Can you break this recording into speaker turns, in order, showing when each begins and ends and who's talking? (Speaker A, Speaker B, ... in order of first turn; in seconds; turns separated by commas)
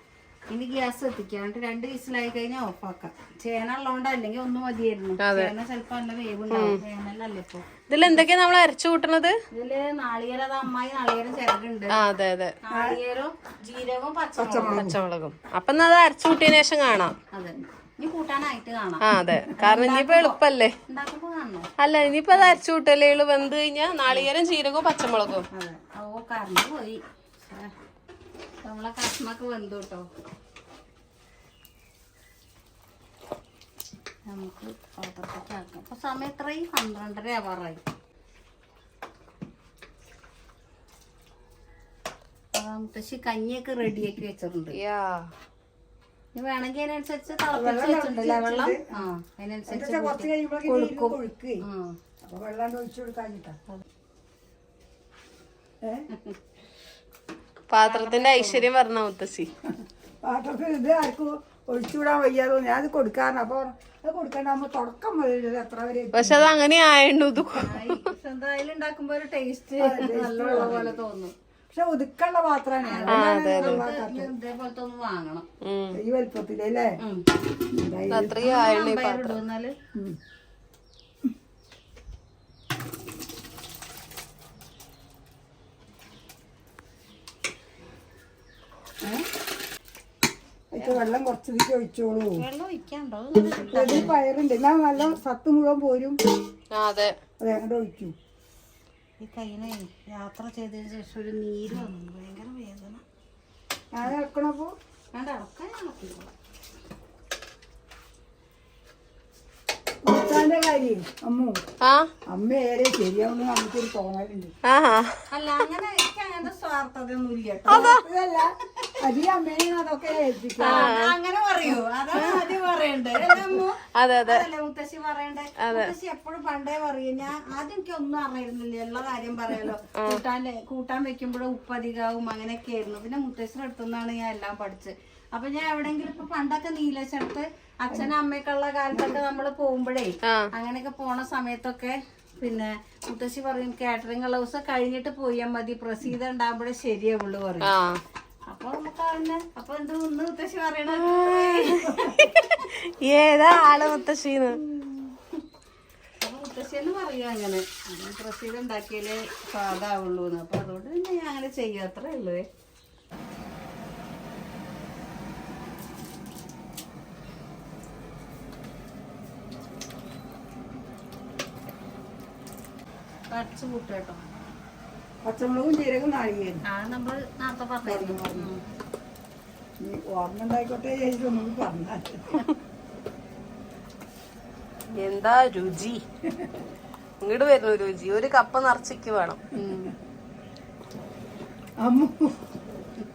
Speaker A: 0.5-7.7, Speaker B: 5.2-5.5, Speaker B: 6.5-6.8, Speaker B: 7.9-9.3, Speaker A: 9.5-12.0, Speaker B: 12.0-12.5, Speaker A: 12.6-14.9, Speaker C: 12.7-13.0, Speaker C: 14.4-15.0, Speaker B: 14.7-17.1, Speaker A: 17.3-19.0, Speaker B: 19.0-20.8, Speaker A: 19.6-21.7, Speaker B: 21.8-25.5, Speaker A: 22.3-22.6, Speaker A: 25.5-27.7, Speaker A: 28.6-30.1, Speaker A: 34.3-37.8, Speaker A: 42.5-44.8, Speaker B: 44.8-45.3, Speaker A: 46.3-52.0, Speaker C: 47.5-48.8, Speaker C: 49.7-51.6, Speaker C: 52.2-53.6, Speaker C: 55.8-56.1, Speaker B: 57.7-59.5, Speaker A: 57.8-58.7, Speaker C: 59.7-66.5, Speaker B: 66.2-68.1, Speaker A: 67.4-71.3, Speaker C: 69.8-71.0, Speaker C: 71.7-74.3, Speaker A: 72.8-75.5, Speaker B: 73.1-73.9, Speaker B: 75.6-76.0, Speaker C: 75.9-76.9, Speaker A: 77.0-77.3, Speaker C: 77.7-78.4, Speaker B: 78.1-79.4, Speaker A: 78.4-79.7, Speaker C: 90.7-92.4, Speaker A: 92.4-94.1, Speaker C: 93.7-96.2, Speaker B: 96.7-97.1, Speaker C: 97.4-98.1, Speaker A: 99.2-103.0, Speaker C: 103.9-104.7, Speaker A: 105.1-106.3, Speaker C: 110.0-111.6, Speaker B: 111.8-112.1, Speaker C: 112.3-114.5, Speaker B: 114.7-115.2, Speaker A: 115.3-118.0, Speaker C: 117.7-121.0, Speaker B: 117.7-118.0, Speaker A: 120.6-147.7, Speaker B: 120.6-121.2, Speaker B: 122.1-122.6, Speaker B: 123.3-124.5, Speaker B: 125.6-125.9, Speaker B: 129.9-130.2, Speaker C: 138.9-139.2, Speaker B: 140.2-140.5, Speaker B: 147.7-148.0, Speaker A: 148.5-152.1, Speaker B: 150.9-154.6, Speaker A: 154.6-155.2, Speaker A: 156.2-162.4, Speaker A: 173.3-174.2, Speaker C: 175.2-176.6, Speaker A: 176.7-178.6, Speaker C: 177.9-178.5, Speaker C: 179.8-182.4, Speaker B: 184.9-186.0, Speaker C: 186.2-186.5, Speaker B: 187.2-189.4, Speaker A: 189.5-189.9, Speaker C: 191.8-192.4